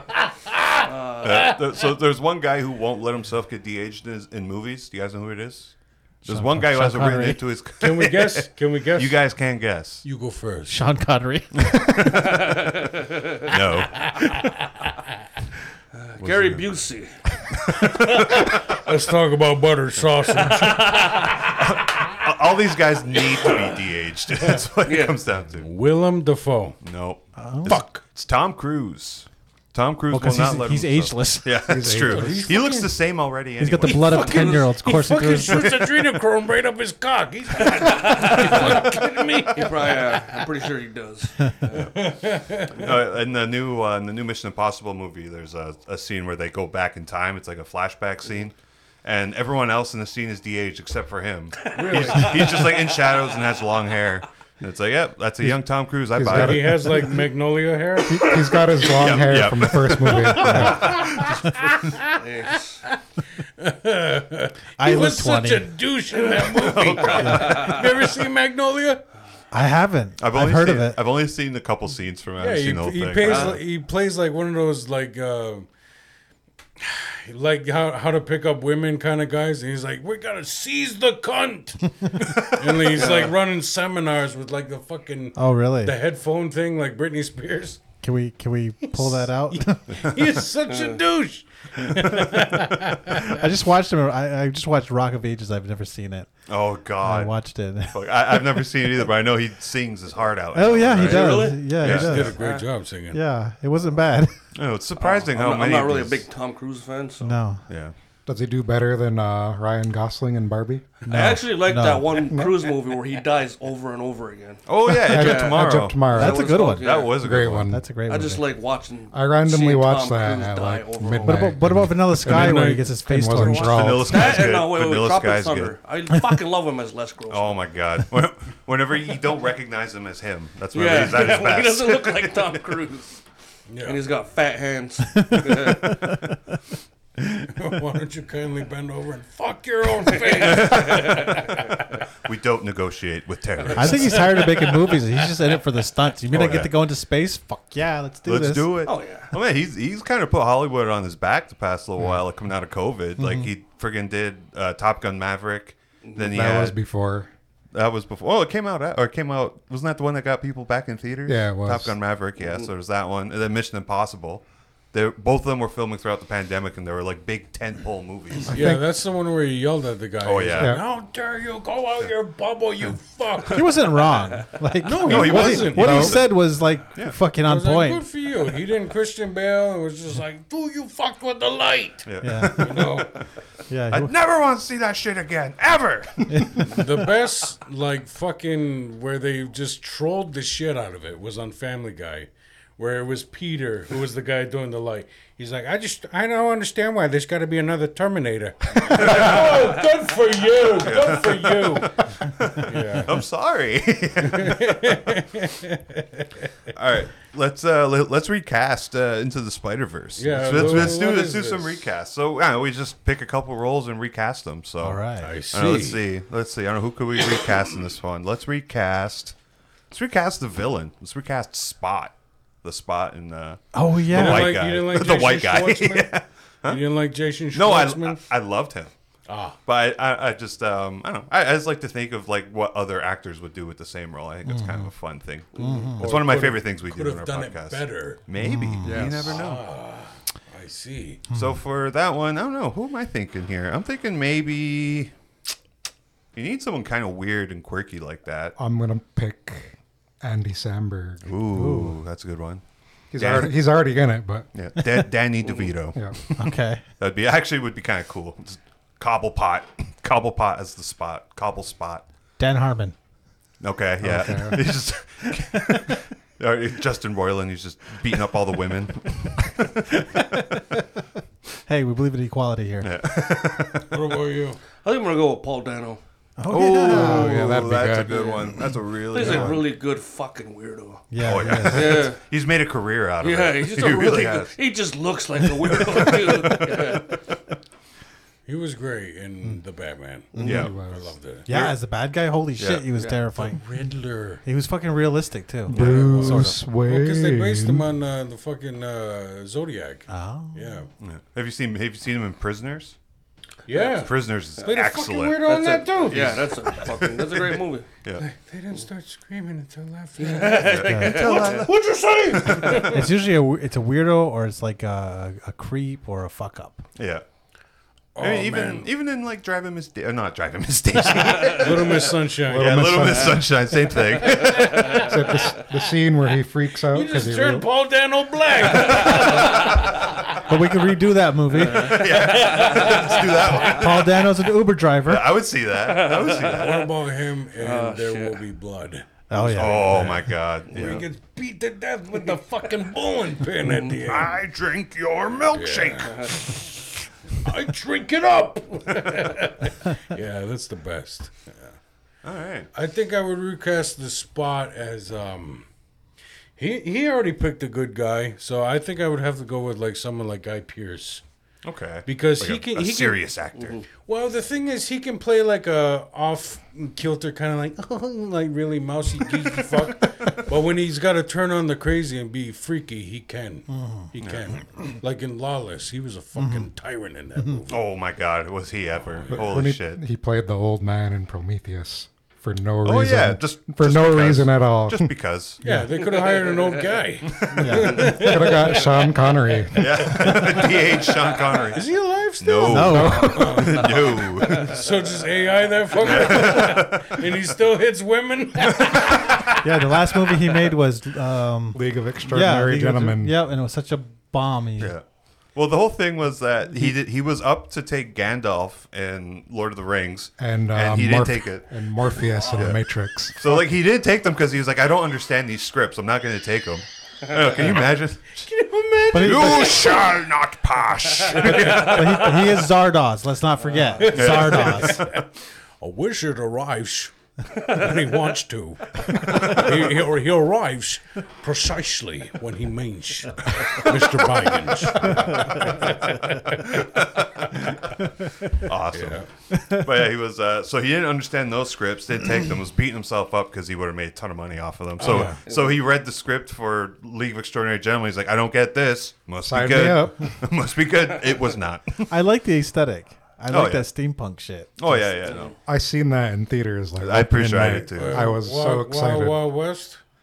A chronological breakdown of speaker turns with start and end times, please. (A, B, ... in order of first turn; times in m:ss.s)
0:00.5-0:00.8 A
0:00.8-0:01.6 B
0:01.2-0:10.0 C
0:06.2-0:07.4 D
0:07.8-0:09.2 A
0:10.0-0:10.8 A
0:10.7-0:11.7 D
0:11.6-0:12.6 C
0:13.4-0:14.1 C
0:13.9-0:14.9 A
0:15.9-0:17.2 B
0:16.2-0:16.7 C
0:17.7-0:18.5 C
0:17.8-0:21.7 A
0:21.6-0:25.7 C
0:24.8-0:25.2 B
0:25.6-0:26.8 A
0:26.8-0:34.3 C
0:27.4-0:27.8 D
0:27.7-0:28.0 A
0:30.1-0:31.6 D
0:31.7-0:32.6 E
0:31.9-0:33.0 A
0:33.6-0:35.6 D
0:33.8-0:40.5 A
0:34.0-0:34.6 B
0:35.5-0:35.8 C
0:37.6-0:38.9 B
0:38.5-0:39.1 C
0:39.5-0:41.9 B
0:41.7-0:43.0 A
0:42.8-0:56.8 C
0:51.7-0:52.7 A
0:51.7-0:53.6 B
0:55.4-0:57.2 E
0:56.3-0:59.2 A
0:58.0-1:01.2 E
0:58.8-1:02.0 C
0:59.9-1:09.0 A
1:00.5-1:00.9 D
1:02.1-1:02.8 B
1:04.8-1:05.7 D
1:06.6-1:07.8 C
1:07.0-1:07.8 B
1:07.2-1:07.6 D
1:09.5-1:11.0 D
1:10.2-1:13.6 C
1:12.4-1:15.7 A
1:13.2-1:13.6 B
1:16.8-1:27.8 A
1:22.9-1:23.3 B
1:25.4-1:26.0 D
1:28.0-1:30.0 D
1:28.8-1:33.4 A
1:30.7-1:31.0 B
1:33.1-1:36.3 D
1:36.5-1:37.4 C
1:37.0-1:38.9 D
1:37.9-1:42.4 C
1:40.5-1:42.4 D
1:40.9-1:42.6 B
1:41.7-1:43.2 A
1:43.1-1:44.3 D
1:44.5-1:46.2 C
1:45.0-1:47.3 B
1:47.2-1:47.6 D
1:47.7-1:47.9 C
1:48.2-1:50.9 E
1:51.0-1:52.2 D
1:51.1-1:57.2 B
1:52.3-1:52.6 E
1:54.6-1:56.1 C
1:54.9-1:58.2 E
1:56.1-1:57.0 D
1:56.7-1:57.7 C
1:57.7-1:58.4 D
1:58.1-2:01.4 B
1:59.1-2:04.5 E
2:01.2-2:04.0 D
2:02.2-2:02.9 A
2:03.4-2:05.7 C
2:04.0-2:07.6 B
2:07.3-2:12.6 C
2:10.7-2:13.2 B
2:13.7-2:14.0 A
2:13.8-2:15.9 B
2:15.1-2:16.3 D
2:17.5-2:22.0 A
2:20.2-2:21.4 B
2:20.6-2:21.0 C
2:22.2-2:24.3 C
2:23.6-2:24.9 A
2:23.7-2:28.8 D
2:26.3-2:26.7 C
2:28.2-2:36.8 C
2:28.8-2:29.3 B
2:33.2-2:33.5 D
2:36.3-2:37.3 E
2:37.7-2:48.7 C
2:41.2-2:41.9 E
2:48.5-2:54.2 A
2:48.5-2:48.8 E
2:50.2-2:50.8 C
2:50.5-2:50.8 E
2:53.5-2:58.0 D
2:54.8-2:56.3 A
2:55.0-2:56.3 C
2:55.8-2:56.2 E
2:57.4-3:03.2 A
3:02.0-3:03.2 C
3:02.2-3:02.7 D
3:03.7-3:04.1 D
3:03.9-3:07.0 C
3:06.3-3:06.6 D
3:06.6-3:22.0 A
3:19.1-3:19.7 C
3:20.7-3:25.0 C
3:22.6-3:23.2 A
3:24.2-3:26.5 A
3:26.7-3:39.3 C
3:30.2-3:31.8 A
3:34.8-3:35.3 D
3:35.2-3:36.0 A
3:39.9-3:46.8 C
3:43.7-3:44.6 D
3:44.1-3:46.1 A
3:46.6-3:48.2 A
3:47.5-3:48.9 C
3:49.2-3:49.6 A
3:49.6-3:59.6 C
3:54.4-3:54.9 D
3:55.5-3:56.1 D
3:55.6-3:58.2 A
3:58.4-3:59.0 D
3:58.8-3:59.4 E
3:59.0-4:01.3 A
4:01.3-4:01.6 D
4:01.3-4:05.1 C
4:06.3-4:08.6 C
4:08.6-4:11.6 E
4:11.2-4:12.6 C
4:11.5-4:11.9 D
4:13.1-4:14.5 E
4:13.2-4:13.6 C
4:14.5-4:22.0 C
4:16.4-4:16.8 D
4:22.4-4:23.0 D
4:23.6-4:30.4 C
4:24.0-4:24.6 E
4:25.5-4:25.8 D
4:30.1-4:30.8 D
4:31.6-4:32.9 D
4:32.8-4:34.2 C
4:33.9-4:34.6 A
4:34.8-4:36.0 B
4:36.4-4:37.4 D
4:36.5-4:39.6 C
4:36.7-4:38.6 E
4:38.1-4:38.4 B
4:39.1-4:42.2 B
4:39.2-4:39.6 E
4:41.1-4:42.1 D
4:41.2-4:44.5 C
4:43.2-4:47.2 B
4:45.7-4:47.1 C
4:48.4-4:51.5 A
4:50.3-4:50.6 D
4:50.4-4:51.1 E
4:50.4-4:50.8 C
4:51.4-4:53.6 D
4:51.5-4:51.7 C
4:52.6-4:52.8 C
4:53.4-4:54.4 A
4:54.4-4:56.6 D
4:55.7-4:57.9 E
4:55.7-4:56.1 C
4:55.7-5:00.9 A
5:00.1-5:00.8 D
5:01.0-5:03.0 C
5:03.7-5:06.8 A
5:03.9-5:05.5 C
5:05.4-5:07.8 B
5:06.1-5:08.2 C
5:08.2-5:13.0 A
5:10.2-5:13.0 B
5:10.6-5:11.8 C
5:10.8-5:11.3 D
5:12.3-5:13.1 C
5:12.8-5:16.8 D
5:17.0-5:17.2 C
5:18.1-5:18.9 A
5:18.2-5:25.0 C
5:21.5-5:23.2 A
5:22.5-5:23.5 E
5:24.2-5:25.6 A
5:24.9-5:27.7 E
5:26.8-5:30.4 A
5:30.4-5:32.1 D
5:31.6-5:33.7 B
5:31.7-5:34.2 C
5:32.3-5:33.7 A
5:33.4-5:35.3 D
5:35.0-5:36.9 C
5:35.7-5:36.9 B
5:36.4-5:44.5 A
5:37.6-5:38.4 B
5:39.3-5:40.2 D
5:39.5-5:41.0 C
5:40.7-5:41.0 B
5:43.6-5:44.1 B
5:44.0-5:46.1 C
5:45.5-5:46.8 A
5:46.0-5:46.4 B
5:47.3-5:51.7 A
5:52.2-5:52.7 C
5:52.7-5:55.7 A
5:56.6-6:01.2 A
6:01.6-6:03.8 C
6:02.0-6:03.2 A
6:03.6-6:03.8 B
6:03.9-6:17.8 A
6:13.7-6:14.1 D
6:14.2-6:14.5 C
6:16.4-6:16.7 D
6:17.7-6:20.0 C
6:19.3-6:25.1 E
6:22.8-6:25.6 C
6:25.6-6:29.0 A
6:25.6-6:25.9 D
6:26.0-6:26.8 B
6:27.3-6:27.8 C
6:27.6-6:28.2 D
6:27.8-6:30.7 E
6:29.7-6:34.8 C
6:31.5-6:39.6 A
6:32.6-6:33.4 D
6:32.8-6:33.9 E
6:36.0-6:37.3 C
6:38.7-6:39.4 C
6:39.6-6:44.9 D
6:41.7-6:43.4 E
6:44.8-6:51.7 C
6:50.4-6:53.4 E
6:52.6-6:52.8 C
6:53.4-6:58.5 C
6:58.5-7:00.2 A
6:59.1-6:59.9 D
6:59.1-7:02.4 C
7:01.2-7:02.6 A
7:01.4-7:01.8 B
7:01.5-7:05.1 D
7:03.7-7:04.0 B
7:04.0-7:16.6 A
7:04.1-7:05.0 C
7:09.3-7:09.7 C
7:15.0-7:15.7 D
7:15.0-7:15.9 C
7:16.6-7:18.0 C
7:18.6-7:32.1 C
7:18.9-7:19.3 A
7:19.5-7:19.8 D
7:25.0-7:25.4 A
7:25.2-7:25.8 B
7:29.4-7:30.3 E
7:32.1-7:35.2 D
7:33.5-7:33.9 C
7:34.8-7:35.5 C
7:35.2-7:35.5 B
7:35.6-7:39.4 E
7:37.0-7:38.3 C
7:37.9-7:40.0 A